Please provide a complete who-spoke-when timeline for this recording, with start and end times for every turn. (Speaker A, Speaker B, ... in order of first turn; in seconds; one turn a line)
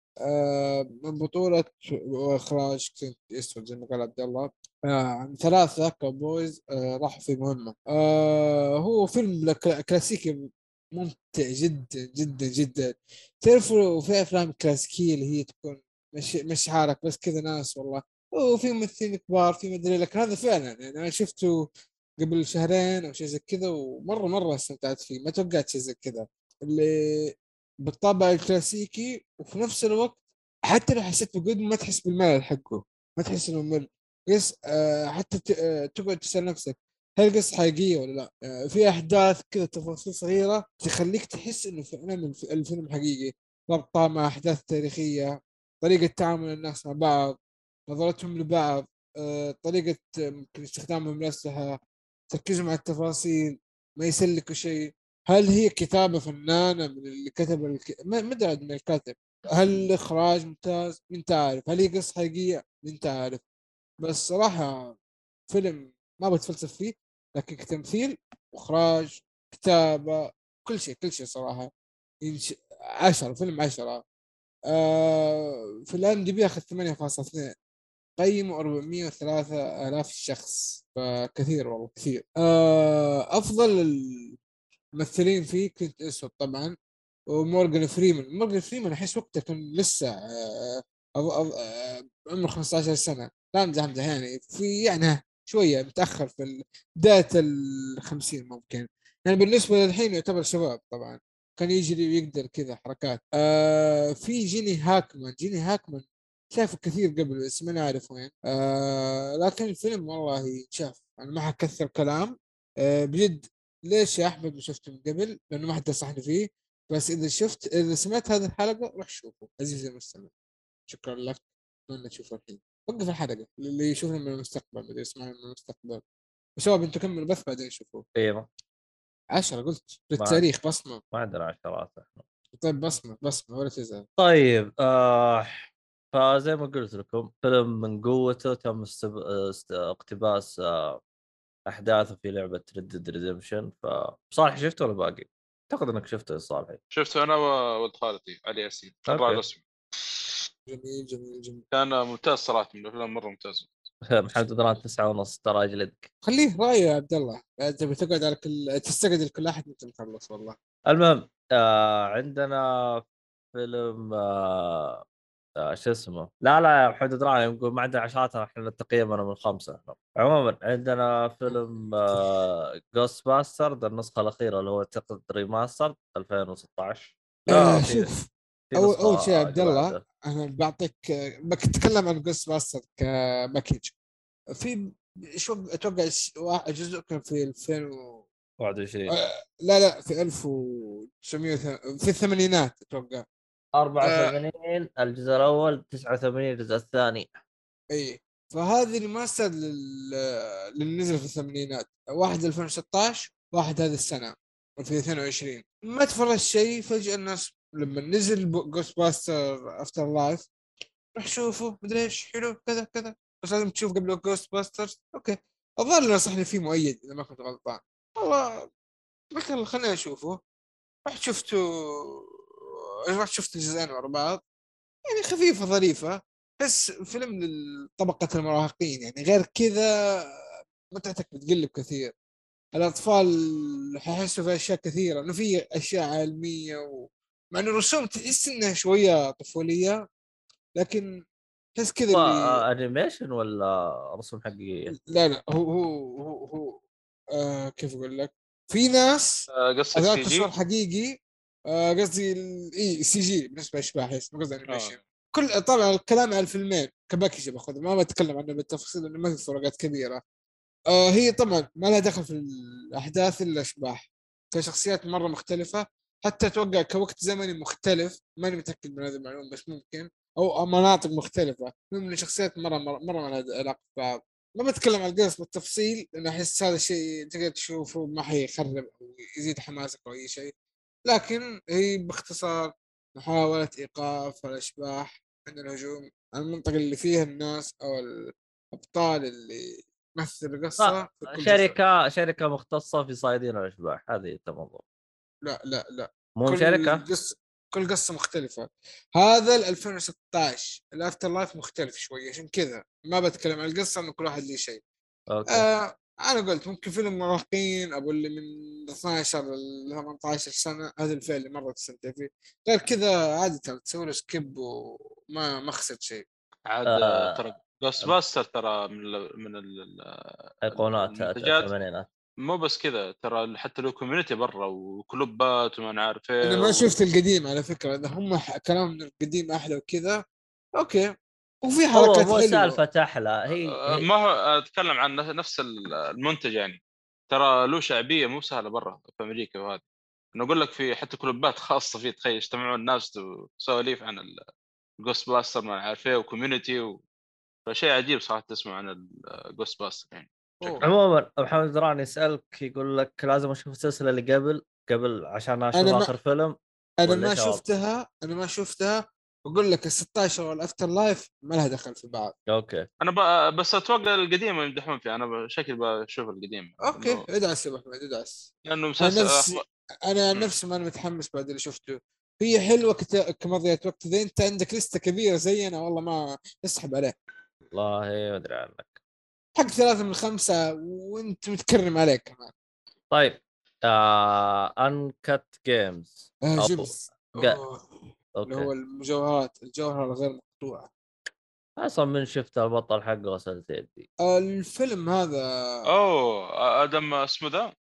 Speaker A: 0.3-21.6
Speaker A: 22.2-63.4
Speaker A: 64.0-65.0
Speaker A: 65.5-71.7
Speaker A: 72.2-74.0
Speaker A: 74.7-77.5
Speaker A: 78.2-84.4
Speaker A: 85.0-86.7
Speaker A: 87.3-120.3
Speaker A: 120.9-126.0
Speaker A: 126.6-128.0
Speaker B: 128.2-128.5
Speaker A: 129.3-131.0
Speaker B: 130.2-130.5
Speaker B: 131.1-132.2
Speaker A: 132.6-134.1
Speaker B: 134.2-135.6
Speaker B: 136.1-141.0
Speaker B: 141.7-146.8
Speaker C: 146.9-150.3
Speaker B: 149.1-149.4
Speaker A: 150.7-151.6
Speaker C: 151.7-153.8
Speaker B: 154.1-156.1
Speaker A: 156.2-160.6
Speaker B: 160.9-163.0
Speaker B: 163.5-165.0
Speaker B: 165.6-178.1
Speaker A: 177.5-183.9
Speaker B: 178.7-180.0
Speaker A: 184.6-188.3
Speaker B: 188.6-189.2
Speaker A: 189.1-193.2
Speaker B: 193.8-197.4
Speaker A: 194.0-194.3
Speaker A: 197.9-210.5
Speaker A: 211.2-218.7
Speaker A: 219.3-220.4
Speaker A: 221.1-224.4
Speaker A: 225.1-229.9
Speaker A: 230.9-232.1
Speaker A: 232.8-240.0
Speaker A: 240.8-241.1
Speaker A: 241.8-242.6
Speaker B: 242.1-244.9
Speaker A: 245.1-246.8
Speaker A: 247.3-251.1
Speaker C: 249.6-250.5
Speaker A: 251.7-260.2
Speaker C: 254.7-255.0
Speaker A: 260.9-280.5
Speaker A: 281.1-291.8
Speaker B: 290.8-294.8
Speaker A: 295.4-304.8
Speaker B: 296.4-297.1
Speaker B: 305.3-305.7
Speaker A: 305.5-316.2
Speaker C: 316.7-321.7
Speaker B: 316.9-317.4
Speaker B: 320.6-322.1
Speaker C: 322.4-326.9
Speaker A: 326.4-330.2
Speaker A: 330.8-331.1
Speaker A: 331.6-332.8
Speaker B: 331.9-334.1
Speaker C: 333.6-339.8
Speaker C: 340.4-344.4
Speaker C: 345.0-347.0
Speaker C: 347.7-350.8
Speaker B: 350.8-357.6
Speaker A: 355.8-356.1
Speaker A: 357.0-362.4
Speaker B: 362.5-362.9
Speaker C: 363.0-367.2
Speaker A: 366.9-377.2
Speaker C: 368.7-369.6
Speaker B: 377.7-379.0
Speaker A: 379.6-382.5
Speaker B: 383.1-387.6
Speaker A: 386.4-390.9
Speaker B: 388.4-388.7
Speaker B: 391.8-394.1
Speaker A: 394.2-395.5
Speaker C: 395.9-397.7